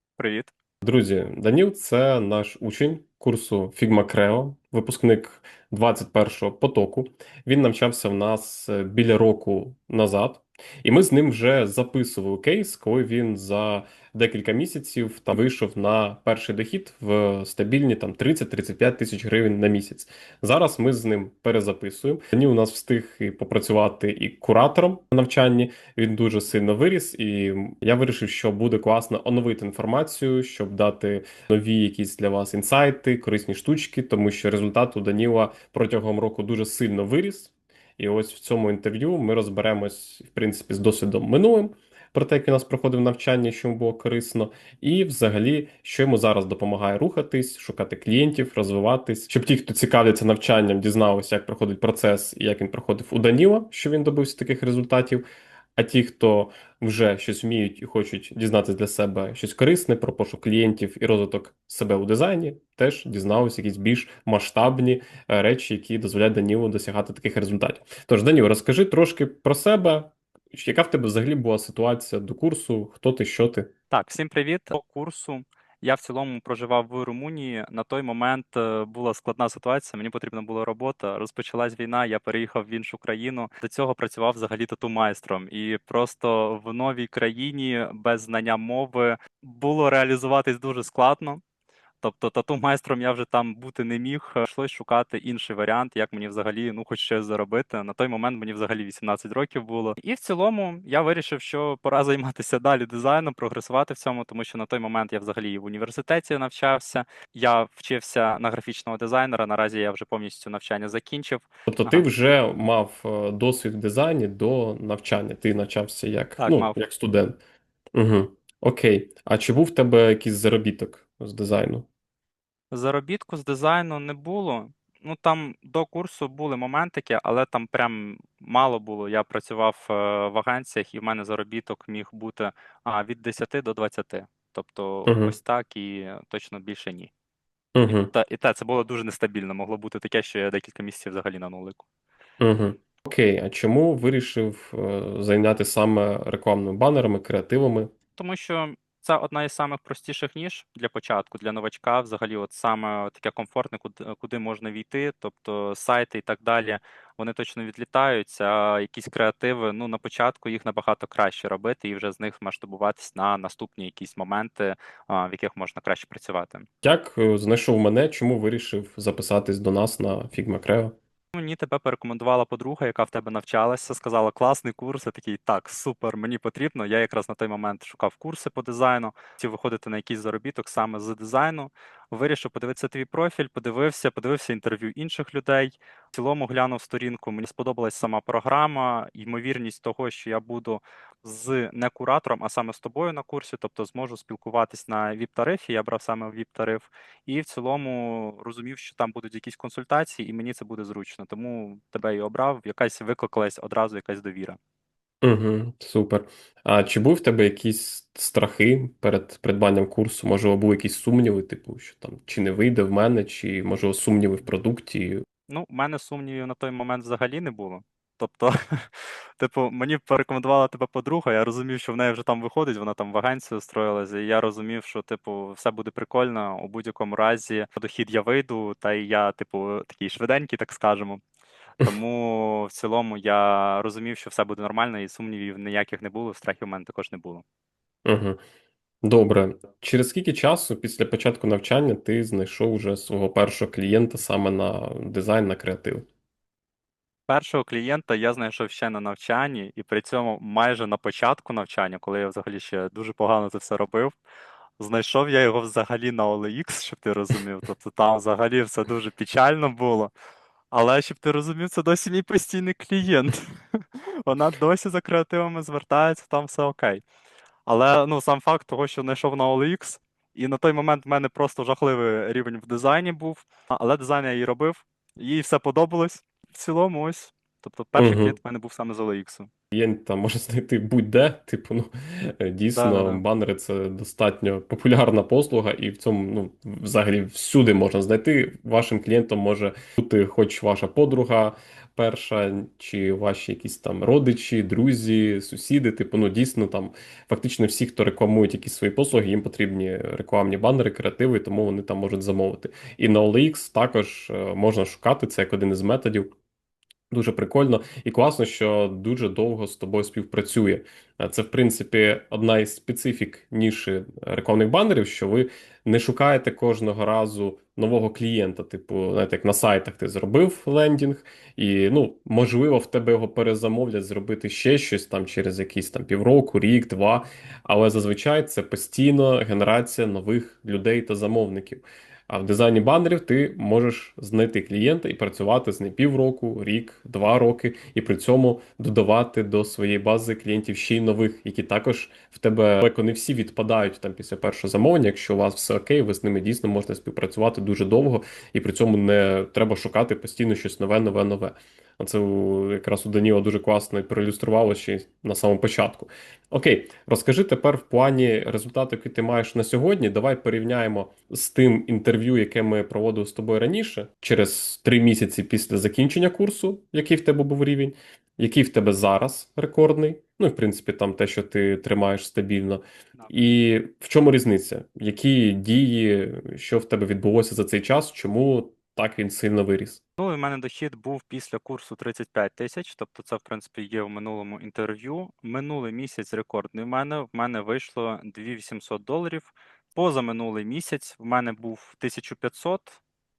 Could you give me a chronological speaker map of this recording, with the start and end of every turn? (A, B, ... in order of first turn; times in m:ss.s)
0:00.2-0:00.5 A
0:00.8-0:55.2 B
0:55.8-1:13.7 B
1:13.9-1:31.4 A
1:32.0-1:52.0 A
1:51.7-1:57.4 B
1:56.4-1:56.8 A
1:58.0-2:01.9 B
2:02.7-2:17.1 A
2:15.1-2:15.3 B
2:17.8-2:18.1 B
2:17.9-2:21.8 A
2:22.4-2:27.9 B
2:28.2-2:46.7 A
2:46.8-2:51.0 B
2:51.3-3:24.6 A
3:25.2-3:35.2 B
3:35.5-3:51.2 A
3:51.8-3:57.4 A
3:58.1-3:58.4 B
3:59.0-4:06.1 B
4:07.3-4:14.2 A
4:14.8-4:20.1 A
4:20.7-4:27.0 A
4:27.7-4:39.5 A
4:38.0-4:38.4 B
4:39.7-5:06.3 B
4:42.8-4:43.2 A
5:07.1-6:20.0 B
6:20.2-6:33.0 A